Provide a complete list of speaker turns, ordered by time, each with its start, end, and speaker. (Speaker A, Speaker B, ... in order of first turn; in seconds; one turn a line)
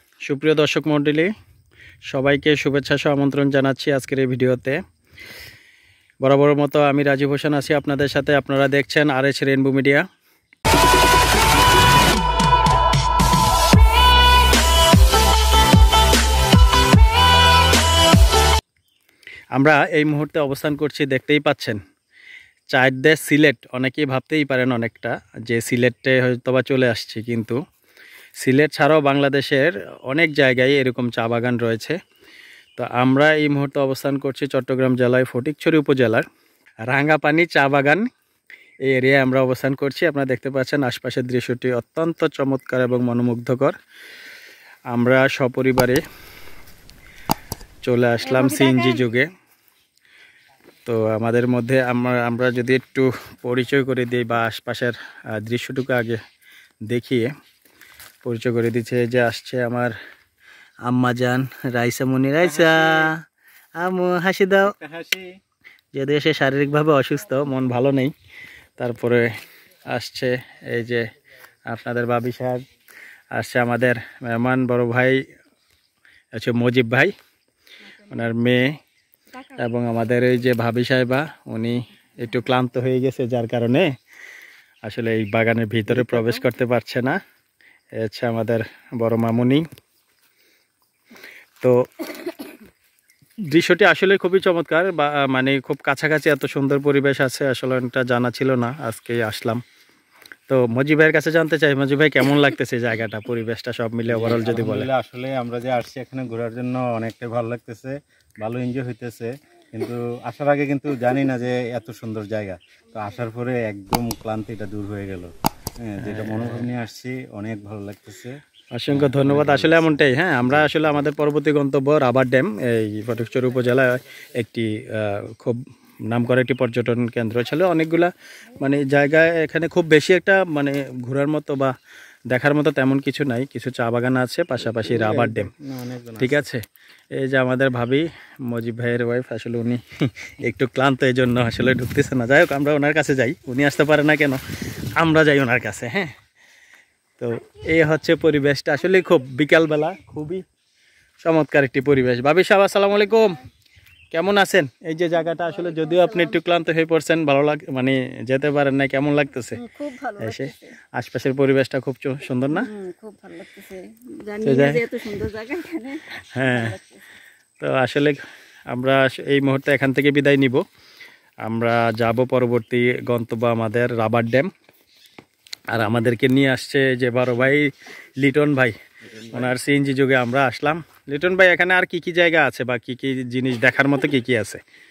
Speaker A: 0.3-1.3
Speaker A: 2.1-4.8
Speaker A: 6.2-10.1
Speaker A: 19.5-21.8
Speaker A: 22.7-27.6
Speaker A: 28.4-32.0
Speaker A: 32.8-36.3
Speaker A: 36.9-38.1
Speaker A: 38.9-43.8
Speaker A: 44.9-46.0
Speaker A: 47.9-49.3
Speaker B: 48.2-49.1
Speaker A: 50.9-56.2
Speaker A: 56.9-57.3
Speaker A: 58.2-60.0
Speaker A: 60.9-63.2
Speaker C: 62.4-63.1
Speaker A: 63.8-64.7
Speaker C: 64.6-65.3
Speaker A: 65.9-68.1
Speaker A: 68.8-69.3
Speaker A: 69.9-71.1
Speaker A: 71.7-72.6
Speaker A: 73.3-75.2
Speaker A: 76.4-77.1
Speaker A: 78.0-78.8
Speaker A: 79.4-83.9
Speaker A: 84.8-87.2
Speaker A: 88.0-89.7
Speaker A: 93.4-99.6
Speaker A: 100.5-104.9
Speaker C: 104.1-115.3
Speaker C: 115.8-118.4
Speaker A: 116.0-116.7
Speaker A: 118.7-131.7
Speaker C: 118.9-120.9
Speaker A: 132.3-135.5
Speaker C: 134.7-136.5
Speaker A: 136.2-146.1
Speaker A: 147.2-150.4
Speaker A: 151.2-153.4
Speaker A: 154.1-159.7
Speaker B: 155.4-156.4
Speaker B: 159.6-160.8
Speaker A: 160.2-162.7
Speaker B: 162.5-167.0
Speaker A: 164.4-164.8
Speaker A: 166.1-166.8
Speaker A: 167.6-170.6
Speaker A: 171.4-174.5
Speaker A: 175.7-178.8
Speaker C: 179.1-179.5
Speaker A: 179.3-184.6